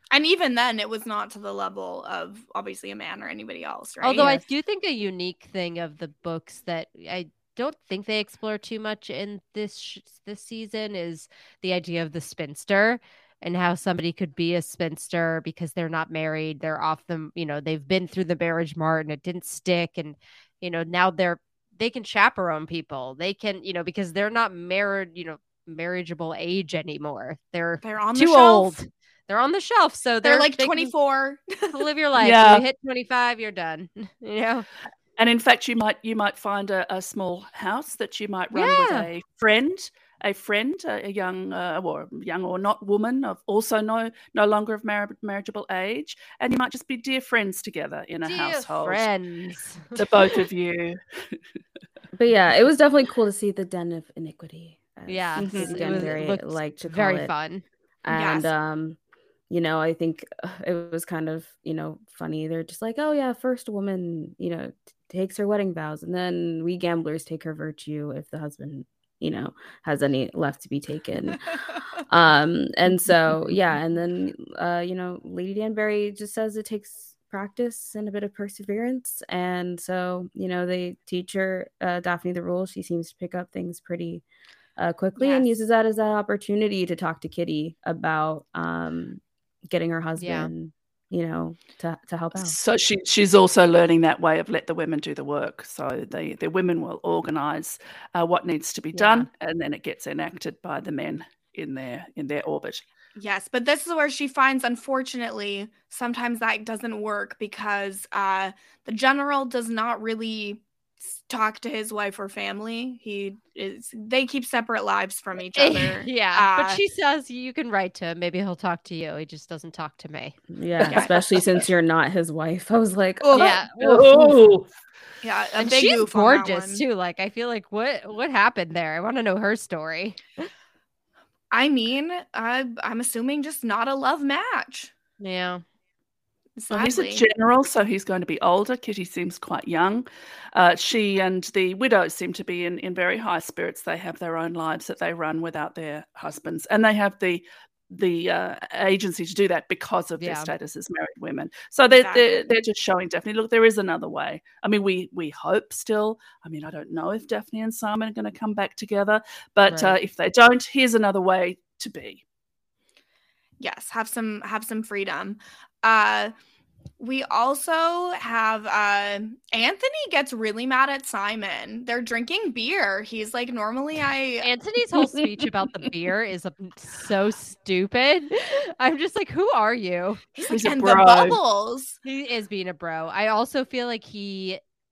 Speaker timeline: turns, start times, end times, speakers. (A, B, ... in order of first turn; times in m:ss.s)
0:00.1-0:04.4 A
0:04.0-0:30.9 B
0:27.8-0:28.8 A
0:30.2-0:31.9 A
0:31.7-0:34.7 B
0:32.2-0:32.6 C
0:35.2-0:49.0 C
0:38.5-0:39.1 B
0:48.2-0:49.9 B
0:50.0-0:51.4 C
0:52.1-0:57.3 D
0:55.1-0:57.6 B
0:55.4-0:56.1 C
0:58.0-0:59.0 D
0:58.1-0:58.5 A
0:59.5-1:11.4 D
1:12.1-1:24.2 D
1:24.8-1:32.6 D
1:25.2-1:25.5 A
1:30.2-1:30.5 B
1:32.4-1:42.8 C
1:38.9-1:39.3 B
1:43.2-1:56.8 A
1:55.5-2:00.4 B
2:00.5-2:03.6 D
2:03.3-2:03.5 A
2:03.3-2:04.4 B
2:03.8-2:04.7 C
2:05.2-2:06.8 A
2:05.6-2:10.5 B
2:11.5-2:14.9 A
2:15.2-2:15.6 B
2:16.6-2:17.2 A
2:16.7-2:42.2 C
2:30.2-2:30.5 B
2:31.9-2:32.4 A
2:39.7-2:40.0 B
2:43.6-2:46.3 A
2:47.0-2:54.5 A
2:54.4-3:00.2 B
3:00.4-3:02.0 A
3:00.5-3:01.4 C
3:02.0-3:04.6 B